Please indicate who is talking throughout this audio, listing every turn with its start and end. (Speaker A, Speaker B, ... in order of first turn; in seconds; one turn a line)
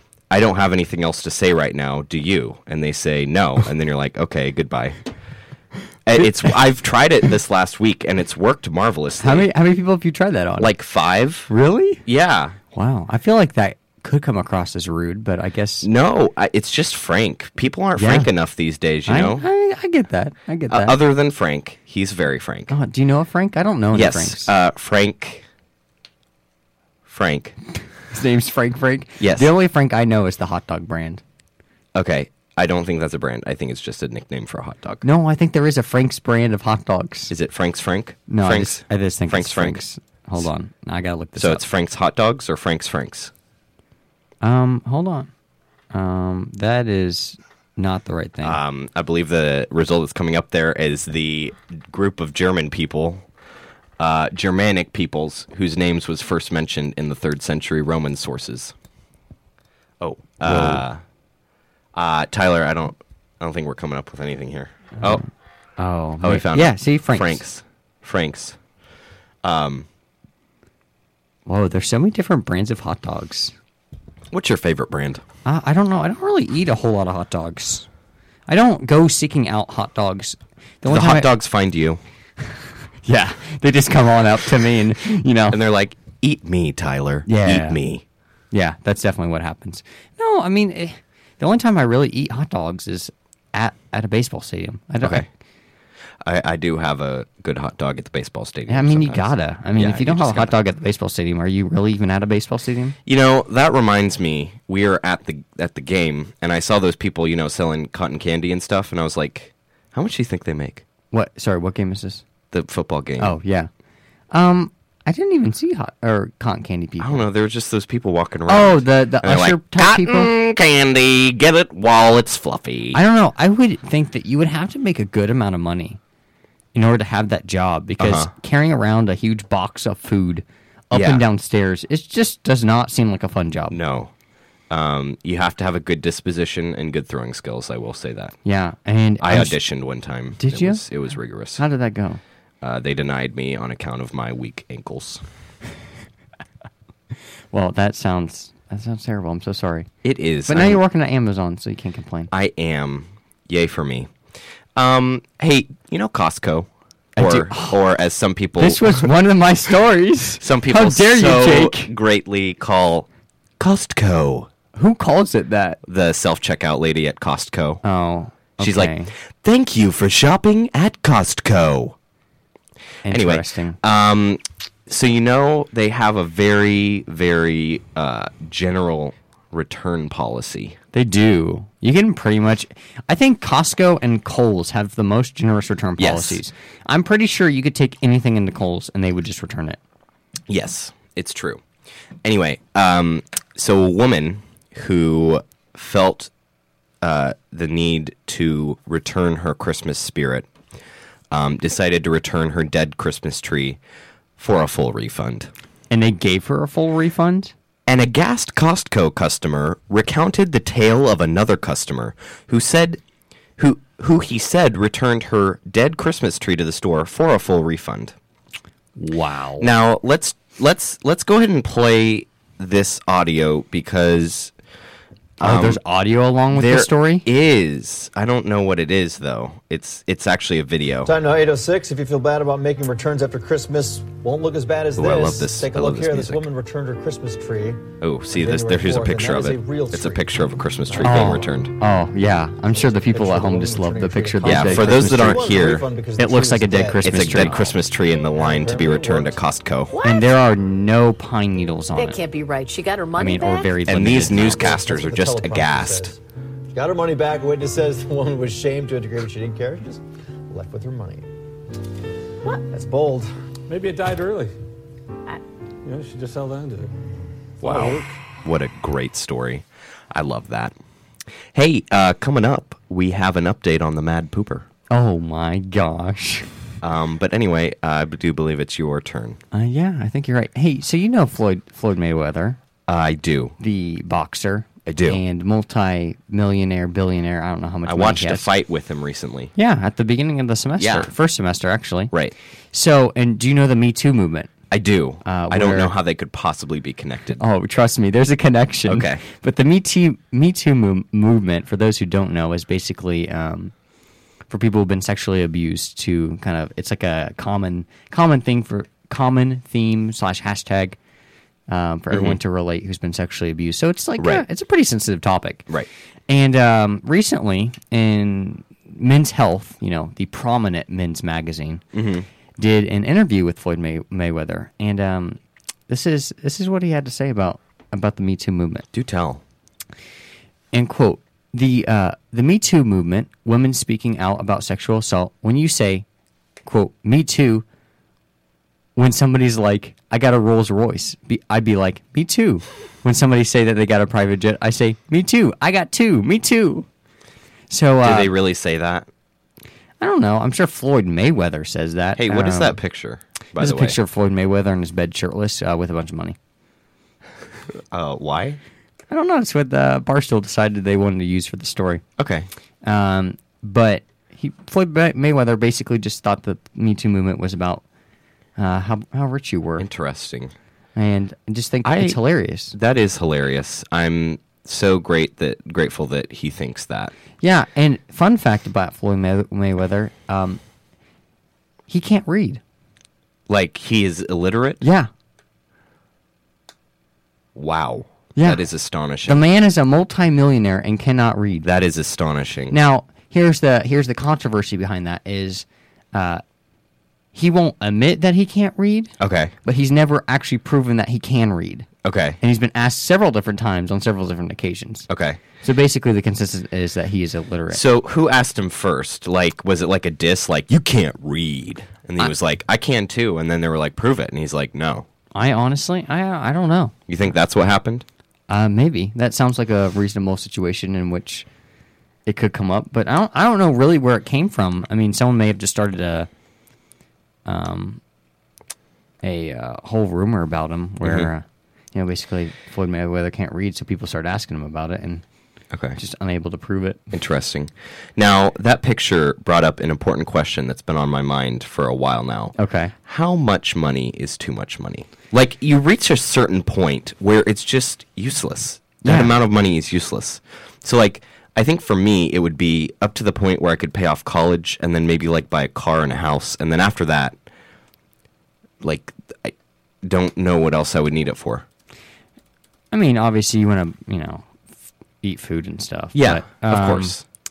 Speaker A: 0.3-5.0
Speaker A: 6.0-9.5
Speaker B: 9.2-10.7
Speaker A: 10.6-11.5
Speaker B: 11.5-12.0
Speaker A: 12.1-12.6
Speaker B: 12.7-15.9
Speaker A: 15.8-19.4
Speaker B: 17.9-18.3
Speaker B: 19.1-21.0
Speaker A: 20.7-22.7
Speaker B: 22.7-24.5
Speaker A: 23.9-25.4
Speaker A: 27.1-27.5
Speaker B: 28.1-31.2
Speaker A: 29.2-29.5
Speaker A: 31.9-35.0
Speaker B: 35.0-37.3
Speaker A: 37.3-39.8
Speaker B: 38.3-41.6
Speaker A: 41.4-43.3
Speaker B: 44.4-45.3
Speaker B: 45.9-48.6
Speaker A: 48.4-53.2
Speaker A: 54.0-58.7
Speaker A: 60.0-61.0
Speaker B: 60.4-60.8
Speaker A: 61.9-65.2
Speaker B: 65.0-65.2
Speaker B: 65.8-67.4
Speaker A: 66.2-68.6
Speaker A: 69.4-69.9
Speaker B: 71.5-73.5
Speaker A: 74.3-75.2
Speaker B: 75.4-77.9
Speaker B: 78.5-81.3
Speaker A: 80.8-82.0
Speaker B: 83.0-85.6
Speaker A: 85.5-88.0
Speaker B: 87.2-87.8
Speaker B: 88.5-95.2
Speaker A: 95.0-95.3
Speaker A: 96.2-100.5
Speaker B: 98.7-102.9
Speaker A: 103.0-110.8
Speaker B: 111.1-112.2
Speaker A: 112.5-113.3
Speaker B: 113.2-113.7
Speaker B: 114.3-117.2
Speaker A: 117.0-123.0
Speaker B: 118.5-120.3
Speaker B: 122.9-126.0
Speaker B: 126.7-133.8
Speaker A: 128.0-128.3
Speaker A: 130.9-131.2
Speaker A: 133.7-134.1
Speaker A: 134.7-138.3
Speaker B: 138.4-139.6
Speaker A: 139.2-141.6
Speaker B: 140.4-140.8
Speaker B: 141.6-142.2
Speaker A: 142.6-145.2
Speaker B: 147.5-149.9
Speaker A: 150.0-150.8
Speaker B: 150.5-152.3
Speaker A: 152.3-154.1
Speaker A: 154.7-159.1
Speaker B: 157.2-157.8
Speaker B: 158.6-161.9
Speaker A: 160.4-163.1
Speaker A: 163.6-164.5
Speaker B: 164.7-165.8
Speaker A: 165.8-167.8
Speaker B: 167.8-169.1
Speaker A: 168.6-171.9
Speaker B: 173.0-173.8
Speaker A: 173.1-180.8
Speaker B: 180.9-189.8
Speaker A: 186.0-186.4
Speaker A: 190.5-191.6
Speaker A: 192.2-196.3
Speaker A: 197.0-200.5
Speaker A: 201.3-203.8
Speaker A: 204.4-205.5
Speaker B: 205.9-207.5
Speaker A: 207.9-213.0
Speaker A: 213.6-218.1
Speaker B: 219.0-219.7
Speaker A: 219.6-224.5
Speaker A: 225.4-225.8
Speaker B: 225.4-227.3
Speaker A: 226.5-231.1
Speaker C: 231.0-241.4
Speaker A: 235.0-236.4
Speaker A: 238.0-241.7
Speaker B: 241.0-245.6
Speaker C: 242.7-247.7
Speaker A: 244.4-245.8
Speaker B: 246.2-247.7
Speaker A: 247.0-250.0
Speaker C: 248.3-249.4
Speaker D: 249.9-250.3
Speaker B: 250.0-252.2
Speaker D: 251.9-253.8
Speaker B: 253.1-254.6
Speaker A: 253.8-256.1
Speaker C: 254.3-256.2
Speaker C: 256.7-261.2
Speaker C: 262.7-263.3
Speaker E: 263.7-264.5
Speaker E: 265.8-266.9
Speaker A: 267.6-270.7
Speaker E: 267.6-268.1
Speaker A: 271.5-274.6
Speaker B: 274.9-276.5
Speaker A: 276.8-279.4
Speaker B: 279.5-282.6
Speaker A: 282.9-283.5
Speaker B: 283.6-288.5
Speaker A: 284.9-285.2
Speaker A: 287.9-289.5
Speaker B: 289.5-292.1
Speaker A: 290.8-291.1
Speaker B: 292.7-294.5
Speaker A: 294.7-297.4
Speaker B: 295.2-295.9
Speaker B: 297.4-303.7
Speaker A: 298.9-299.2
Speaker B: 304.5-311.0
Speaker B: 311.7-315.7
Speaker A: 312.1-312.4
Speaker A: 314.2-314.4
Speaker B: 316.3-321.8
Speaker A: 321.9-322.2
Speaker B: 322.6-328.9
Speaker A: 328.9-329.4
Speaker B: 330.7-336.0
Speaker B: 336.6-337.6
Speaker B: 338.9-346.9
Speaker B: 347.7-348.3
Speaker A: 348.0-349.1
Speaker B: 350.0-352.8
Speaker A: 352.2-353.9
Speaker B: 353.6-356.4
Speaker A: 357.9-358.6
Speaker B: 359.1-362.0
Speaker A: 362.2-362.5
Speaker B: 362.8-367.8
Speaker B: 368.6-369.9
Speaker A: 369.8-370.5
Speaker B: 370.9-372.7
Speaker A: 371.8-372.2
Speaker A: 372.7-377.1
Speaker B: 377.4-380.6
Speaker B: 381.9-382.6
Speaker A: 383.5-384.8
Speaker B: 384.8-385.1
Speaker A: 387.5-389.4
Speaker B: 388.3-388.6
Speaker B: 389.2-391.7
Speaker A: 391.6-392.7
Speaker B: 392.7-396.4
Speaker B: 397.3-399.1
Speaker A: 399.2-399.5
Speaker B: 399.6-401.9
Speaker A: 402.0-402.4
Speaker B: 402.4-405.1
Speaker A: 405.1-405.4
Speaker B: 405.6-407.8
Speaker A: 407.7-415.1
Speaker B: 415.3-416.9
Speaker A: 417.1-418.0
Speaker B: 418.5-421.4
Speaker B: 422.2-426.3
Speaker B: 427.4-428.0
Speaker B: 429.2-435.2
Speaker A: 431.0-431.3
Speaker A: 435.7-436.0
Speaker B: 435.9-437.0
Speaker A: 437.1-457.3
Speaker B: 442.6-442.9
Speaker B: 449.0-449.3
Speaker A: 458.8-461.6
Speaker B: 462.9-464.5
Speaker B: 465.2-467.1
Speaker A: 466.1-467.2